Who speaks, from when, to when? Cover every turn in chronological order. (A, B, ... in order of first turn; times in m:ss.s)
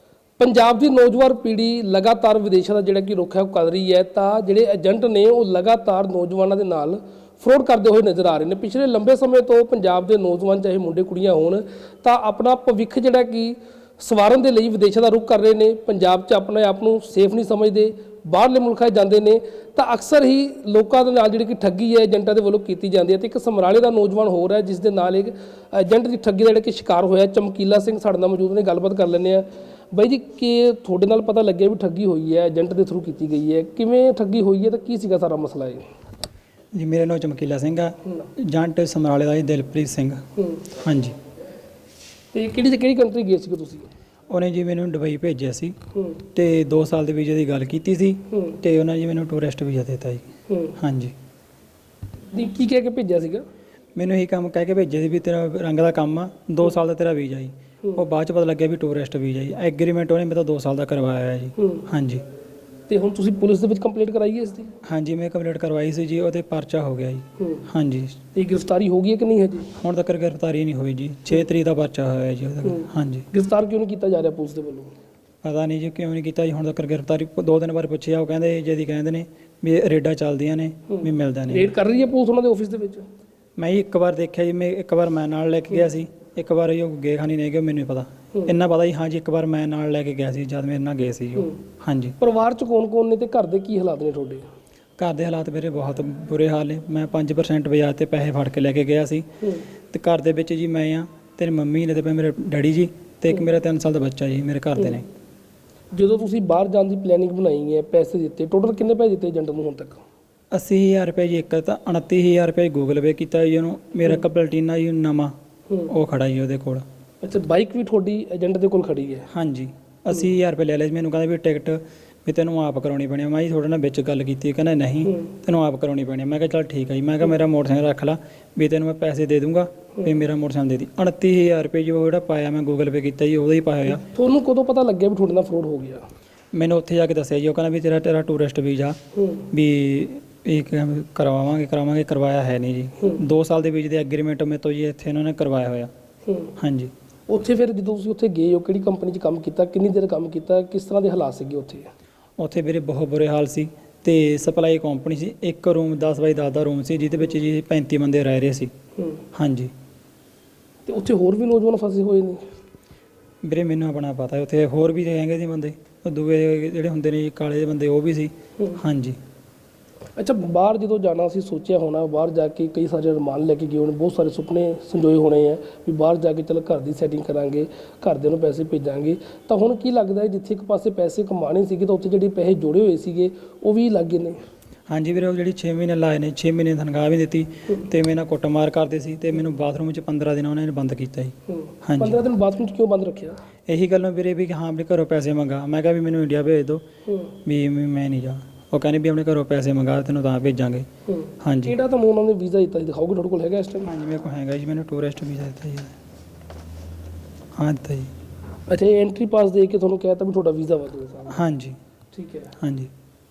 0:00.4-0:35.8 A
0:36.7-0:41.2 B
0:40.4-0:40.6 A
0:42.3-0:43.9 A
0:44.3-0:45.8 B
0:46.0-0:46.2 A
0:46.3-0:50.3 B
0:48.3-0:48.6 A
0:50.5-0:50.8 A
0:50.8-0:51.1 B
0:52.3-0:53.4 A
0:54.0-1:02.2 B
1:01.6-1:01.9 A
1:02.9-1:04.7 A
1:04.8-1:08.2 B
1:07.4-1:07.7 A
1:08.3-1:09.7 A
1:09.8-1:13.3 B
1:12.6-1:14.9 A
1:15.4-1:21.7 B
1:20.9-1:23.1 A
1:23.6-1:32.2 B
1:32.2-1:34.5 A
1:35.0-1:39.3 B
1:39.4-1:39.7 A
1:39.9-1:45.1 B
1:44.8-1:45.0 A
1:45.9-1:50.0 A
1:50.5-1:55.3 B
1:55.9-1:56.8 B
1:57.2-1:59.3 A
1:59.3-2:14.0 B
2:13.9-2:16.0 A
2:16.5-2:19.0 B
2:19.2-2:19.5 A
2:19.5-2:25.9 B
2:26.3-2:26.6 A
2:26.6-2:26.9 B
2:27.3-2:31.9 A
2:32.4-2:38.7 B
2:39.0-2:39.2 A
2:39.3-2:39.7 B
2:40.9-2:42.4 A
2:43.4-2:49.2 B
2:48.6-2:48.8 A
2:50.2-3:04.4 A
3:04.9-3:11.3 B
3:11.5-3:13.4 A
3:11.8-3:12.2 B
3:13.7-3:16.8 B
3:17.1-3:17.3 A
3:17.4-3:20.9 B
3:21.1-3:23.9 A
3:21.4-3:21.8 B
3:23.8-3:26.0 B
3:27.6-3:28.1 B
3:28.7-3:31.4 A
3:31.3-3:31.8 B
3:32.1-3:32.5 A
3:32.6-3:32.9 B